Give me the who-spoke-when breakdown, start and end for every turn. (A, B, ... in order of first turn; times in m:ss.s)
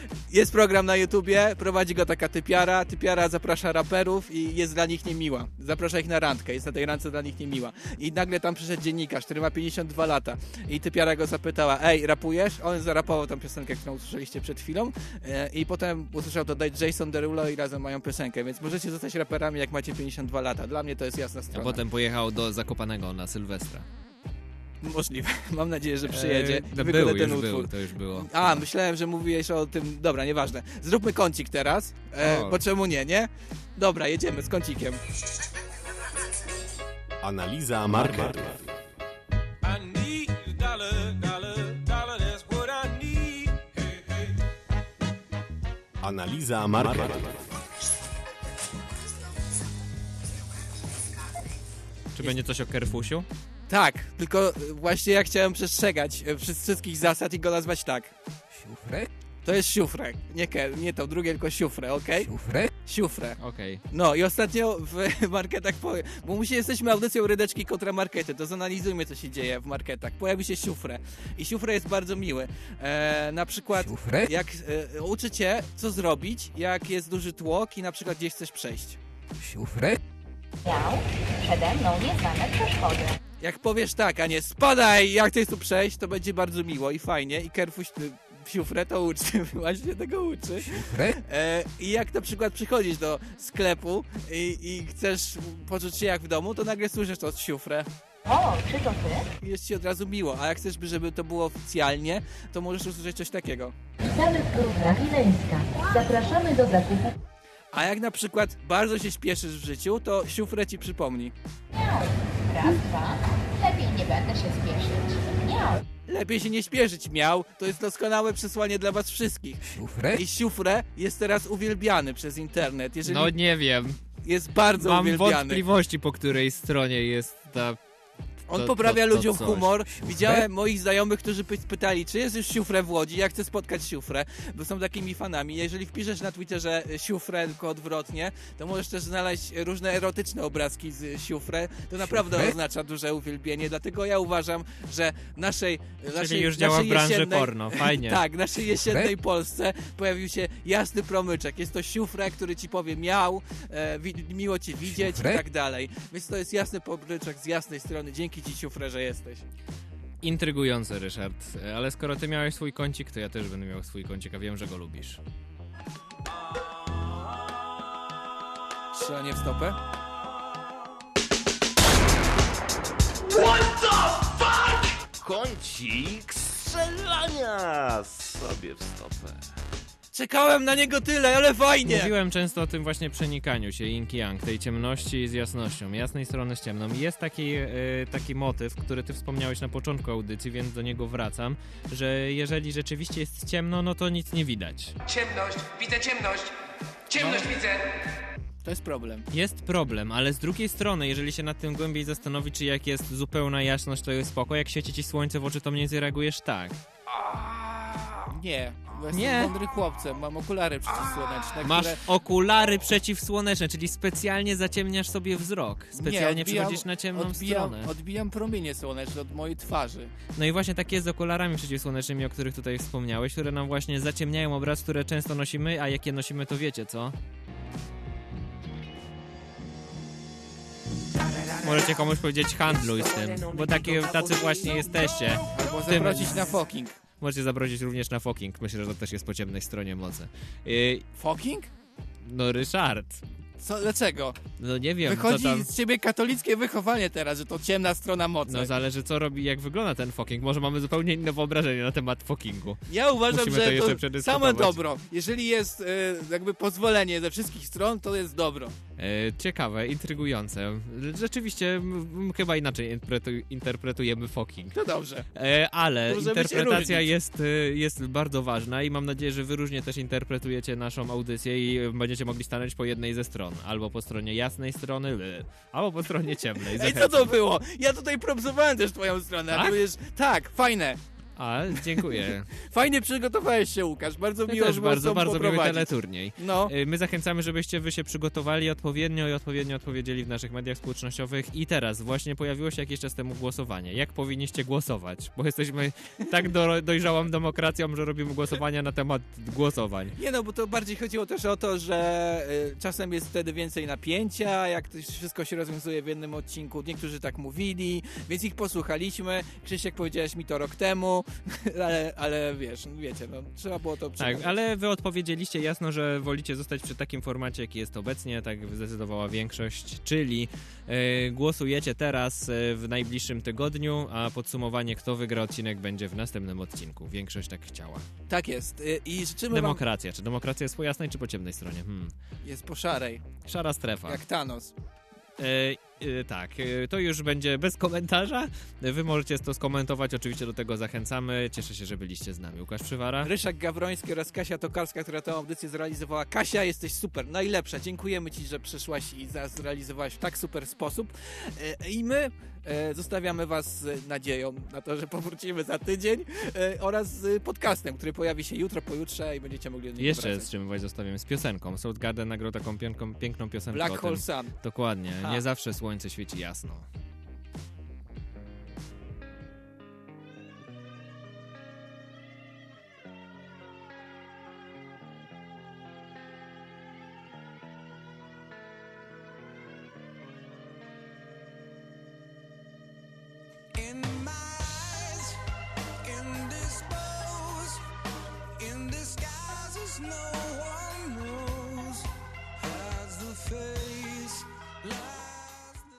0:00.3-0:21.8 A
0:21.5-0:23.8 B
0:24.8-0:35.0 A
0:26.1-0:28.6 B
0:32.2-0:32.6 B
0:37.2-0:38.7 C
0:38.0-0:38.5 B
0:39.6-0:44.3 D
0:46.0-0:47.3 C
0:52.1-0:53.3 B
0:53.7-0:58.1 A
0:59.4-1:03.4 A
1:03.4-1:03.8 B
1:03.9-1:19.0 A
1:20.6-1:23.2 E
1:23.4-1:37.9 A
1:38.3-1:39.3 E
1:39.4-1:43.7 A
1:44.1-1:47.1 E
1:47.7-1:51.3 A
1:51.7-1:55.8 E
1:56.1-2:03.3 A
2:03.0-2:04.0 B
2:04.2-2:05.6 A
2:04.8-2:07.8 B
2:08.5-2:39.4 A
2:08.5-2:10.3 B
2:26.1-2:28.2 B
2:40.2-2:45.2 B
2:48.9-2:49.8 A
2:53.3-2:54.4 F
2:55.2-2:59.3 F
3:00.1-3:02.1 A
3:01.8-3:15.0 B
3:15.0-3:16.5 D
3:17.1-3:18.0 D
3:17.2-3:17.5 A
3:18.6-3:19.3 A
3:19.3-3:26.8 B
3:27.5-3:28.0 D
3:28.3-3:32.0 A
3:29.1-3:29.5 B
3:31.6-3:37.9 B
3:36.0-3:40.1 A
3:40.4-3:47.2 B
3:51.6-3:56.6 B
3:55.5-3:57.0 A
3:57.2-4:01.0 B
4:01.2-4:01.7 A
4:02.2-4:03.2 B
4:03.6-4:04.4 A
4:04.6-4:05.7 B
4:05.0-4:08.7 A
4:08.4-4:14.8 B
4:12.9-4:18.7 A
4:19.0-4:24.8 B
4:24.7-4:25.3 A
4:25.3-4:37.3 B
4:26.1-4:27.1 A
4:36.8-4:41.0 A
4:39.5-4:39.8 B
4:41.4-4:42.5 B
4:42.6-4:46.7 A
4:44.5-5:00.2 B
5:00.2-5:14.5 A
5:14.2-5:28.0 B
5:28.3-5:29.8 A
5:29.5-5:32.1 B
5:32.4-5:33.3 A
5:33.4-5:34.2 B
5:34.1-5:34.7 A
5:35.4-5:43.3 B
5:43.2-6:00.5 A
6:00.0-6:06.9 B
6:03.7-6:04.5 A
6:23.7-6:25.4 D
6:26.0-6:27.8 D
6:28.6-6:32.0 D
6:32.6-6:35.8 D